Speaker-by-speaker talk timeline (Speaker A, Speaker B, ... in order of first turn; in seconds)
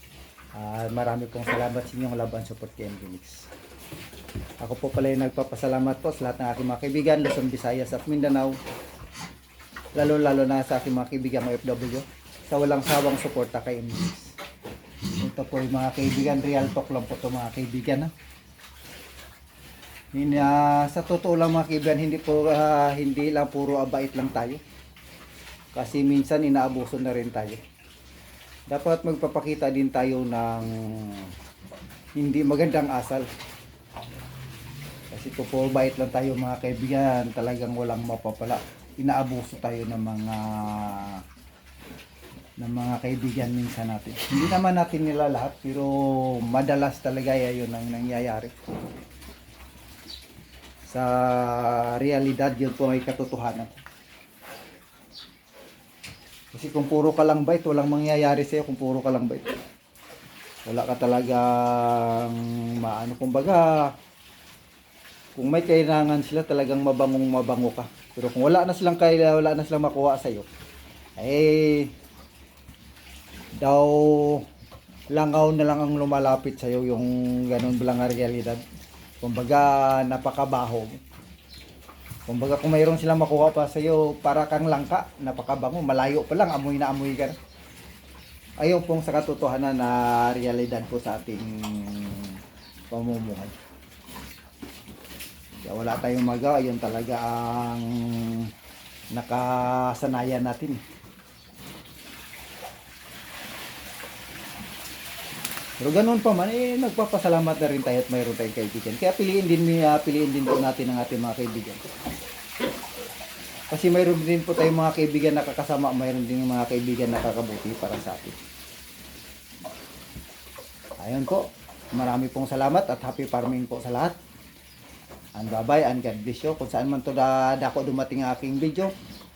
Speaker A: 0.5-3.5, 4.6-8.6, 9.9-14.3, 15.2-18.1, 20.1-24.6, 25.7-27.6, 28.7-31.3, 32.1-33.3, 35.1-41.2, 42.6-48.5, 50.8-53.8, 56.5-59.5, 60.6-63.9, 65.3-70.5, 71.2-71.9, 73.6-74.4, 75.1-78.6, 79.2-81.0, 82.3-87.4, 88.6-93.6, 95.6-98.5, 99.1-100.8, 105.8-111.8, 113.7-118.4, 121.0-124.2, 125.3-128.9